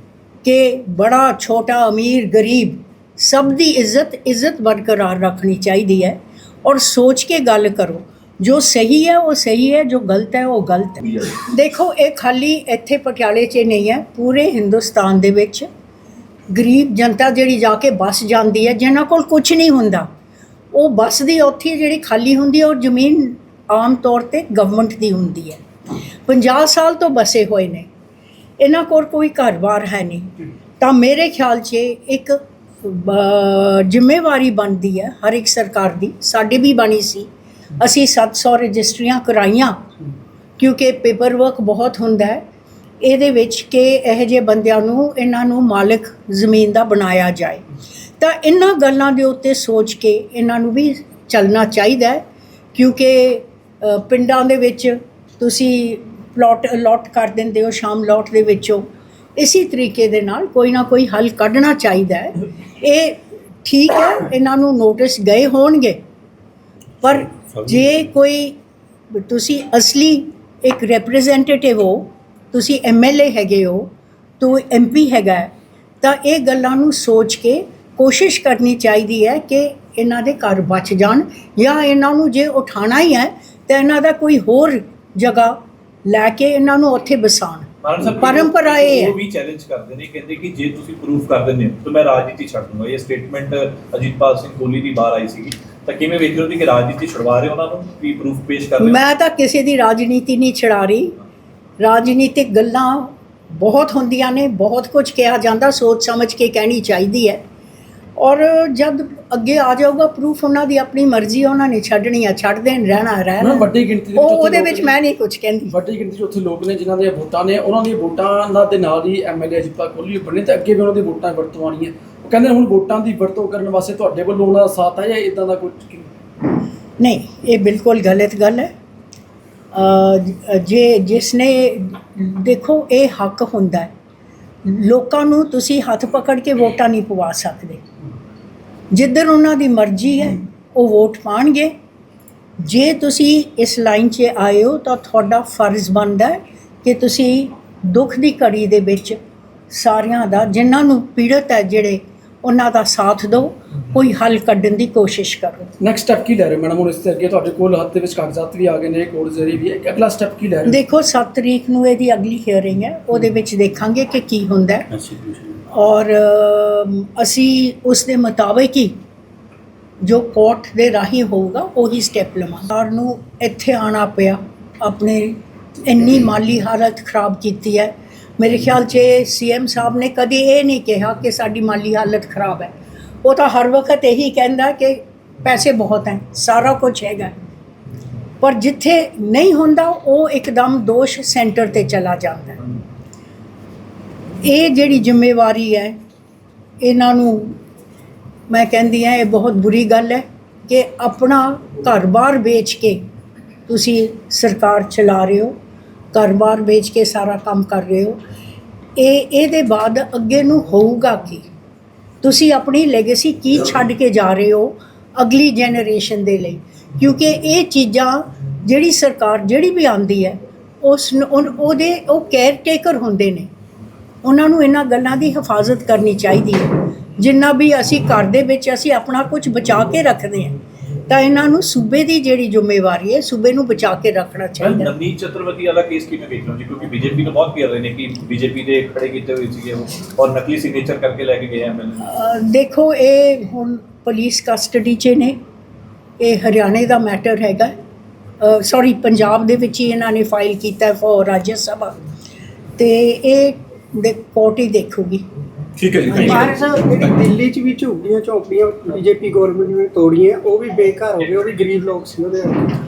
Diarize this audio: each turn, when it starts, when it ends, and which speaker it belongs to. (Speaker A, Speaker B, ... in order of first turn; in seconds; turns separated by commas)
Speaker A: 0.4-15.7, Speaker A: 16.5-20.1, Speaker A: 20.7-25.6, Speaker A: 26.3-27.9, Speaker A: 28.6-37.3, Speaker A: 37.8-39.8, Speaker A: 40.6-42.4, Speaker A: 43.0-47.6, Speaker A: 48.2-52.2, Speaker A: 52.7-58.8, Speaker A: 59.4-66.0, Speaker A: 67.0-68.5, Speaker A: 69.1-73.9, Speaker A: 74.4-89.2, Speaker B: 87.8-99.0, Speaker A: 98.8-101.1, Speaker A: 101.8-107.4, Speaker A: 108.2-115.7, Speaker C: 113.4-114.9, Speaker C: 115.7-126.1, Speaker A: 127.0-128.7, Speaker A: 129.7-133.9, Speaker A: 134.7-137.8, Speaker A: 138.9-141.7, Speaker A: 142.6-149.2, Speaker A: 149.7-155.7, Speaker C: 155.8-160.8, Speaker A: 160.7-164.9, Speaker A: 165.7-168.9, Speaker A: 170.0-182.7, Speaker A: 183.2-187.3, Speaker A: 188.4-192.6, Speaker A: 194.4-195.9, Speaker A: 196.8-197.6, Speaker A: 198.5-203.0, Speaker A: 203.7-205.5, Speaker A: 206.1-208.2, Speaker A: 209.0-211.5, Speaker A: 212.2-223.5, Speaker A: 224.2-230.5, Speaker A: 231.1-234.9, Speaker B: 234.6-242.0, Speaker A: 242.0-245.3, Speaker A: 246.2-247.7, Speaker A: 248.4-251.9, Speaker A: 252.8-255.2, Speaker B: 255.8-257.1, Speaker A: 256.1-256.6, Speaker D: 256.2-262.6